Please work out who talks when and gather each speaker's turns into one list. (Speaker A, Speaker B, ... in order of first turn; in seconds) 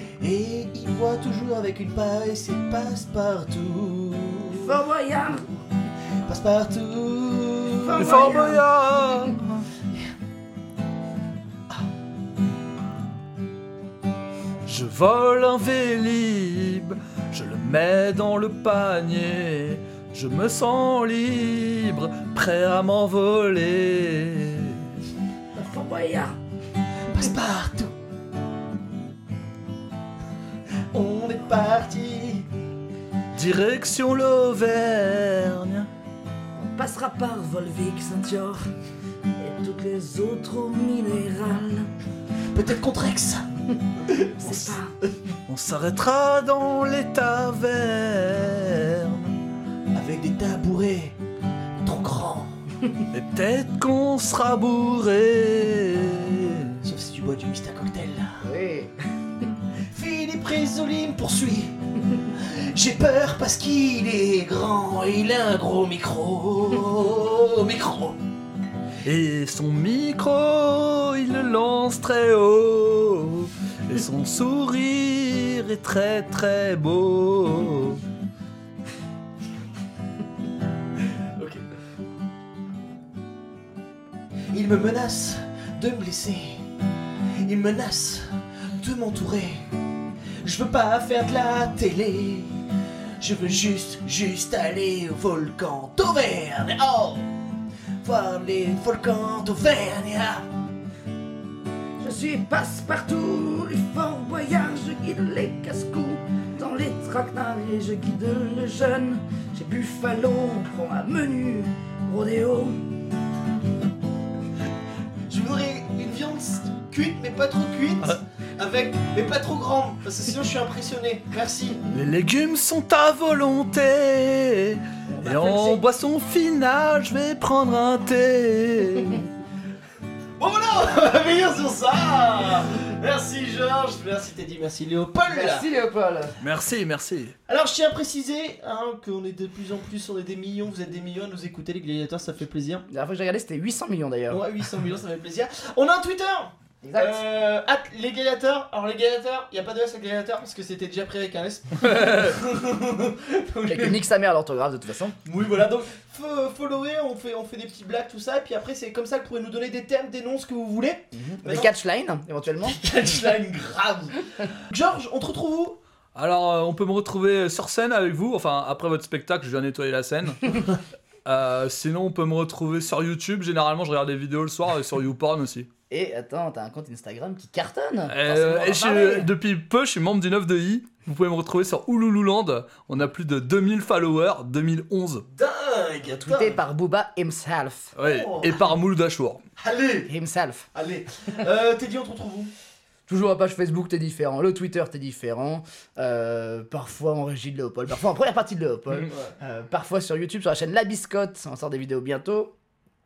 Speaker A: 0.2-4.7, 6.2-8.0, 27.1-27.9, 30.9-32.5, 42.5-43.4, 44.0-44.7, 49.9-51.2, 51.8-52.6, 56.8-58.5, 59.9-61.7, 62.3-68.2, 81.3-81.6, 84.5-86.6, 87.4-88.3, 88.8-89.7, 90.4-92.5, 93.2-97.2, 98.0-100.5, 115.3-121.8, 125.1-125.8, 130.4-135.7, 137.5-142.8, 144.3-154.0, 155.2-161.7, 162.6-165.8, 185.3-186.6, 188.0-188.6, 189.6-190.1, 190.7-192.5, 199.1-199.3
Speaker B: 4.6-5.6, 7.8-9.3, 25.5-26.4, 36.5-38.6, 39.4-41.9, 44.1-44.9, 58.4-59.5, 102.0-112.8, 135.3-136.4, 142.9-144.4, 146.8-147.2, 153.7-155.2, 161.1-162.8, 175.9-179.3, 186.1-187.9, 190.1-190.7, 193.1-202.5
Speaker C: 8.0-9.7, 14.7-24.8, 33.3-35.9, 45.5-49.3, 53.1-56.8, 69.0-78.0, 121.9-129.3, 136.4-137.3, 166.1-175.7, 178.1-185.2, 187.9-189.4